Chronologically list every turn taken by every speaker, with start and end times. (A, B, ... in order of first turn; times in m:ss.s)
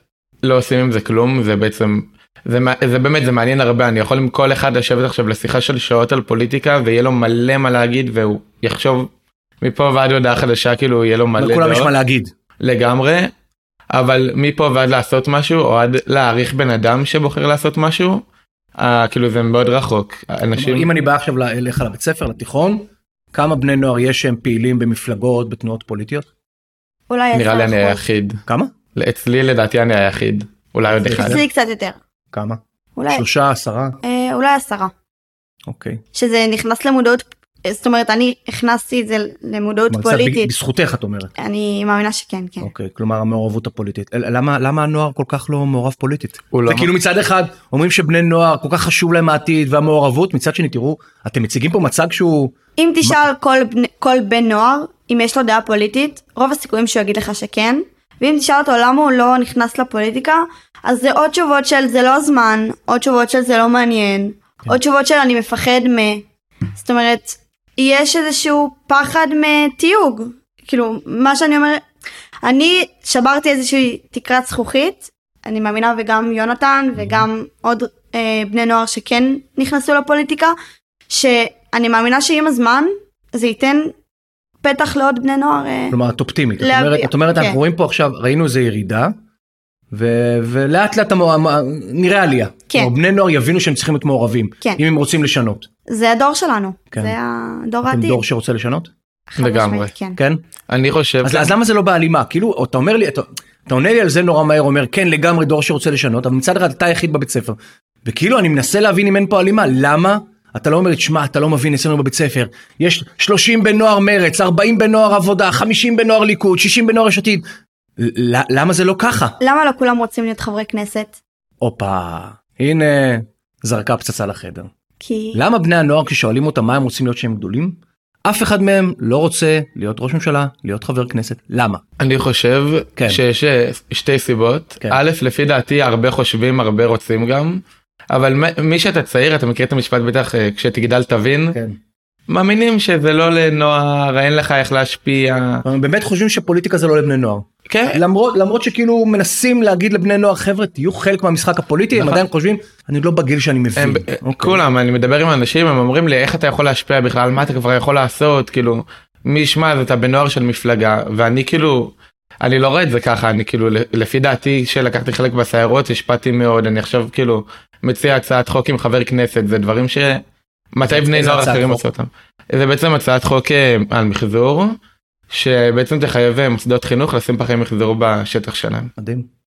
0:00.4-0:09.1 A
0:09.6-0:11.9 A
0:11.4-0:12.3 B
0:12.6-0:13.3 A
0:13.9-0:18.2 A
0:18.8-0:20.9 A
0:20.5-0:26.3 B
0:27.1-0:28.0 C
0:27.3-0:28.4 A
0:28.5-0:28.7 B
0:28.9-0:31.4 A
0:31.0-0:31.4 B
0:31.0-0:32.0 C
0:32.3-0:32.6 B
0:33.0-0:33.2 C
0:33.1-0:34.0 B
0:34.0-0:34.9 C
0:35.7-0:36.0 B
0:36.1-0:40.5 C
0:39.9-0:41.3 B
0:41.4-0:42.7 C
0:42.6-0:53.2 B
0:46.5-0:46.9 A
0:52.8-1:06.2 C
1:06.8-1:11.8 C
1:12.4-1:20.5 C
1:21.1-1:23.9 C
1:24.6-1:26.0 C
1:25.9-1:29.1 B
1:26.6-1:27.6 C
1:29.9-1:35.7 B
1:35.9-1:38.2 C
1:37.8-1:38.9 B
1:39.3-1:40.2 C
1:39.4-1:39.9 A
1:40.2-1:40.4 B
1:40.7-1:41.5 A
1:41.2-1:57.4 B
1:58.0-1:59.4 B
1:59.4-2:01.2 C
2:01.6-2:04.7 B
2:05.0-2:05.4 C
2:05.3-2:11.8 B
2:12.0-2:17.6 A
2:18.1-2:21.6 A
2:22.3-2:25.6 A
2:25.6-2:34.6 B
2:27.7-2:28.0 A
2:31.9-2:32.2 A
2:33.8-2:50.2 A
2:50.7-2:54.8 A
2:50.8-2:51.8 B
2:55.3-2:58.9 A
2:59.0-2:59.3 B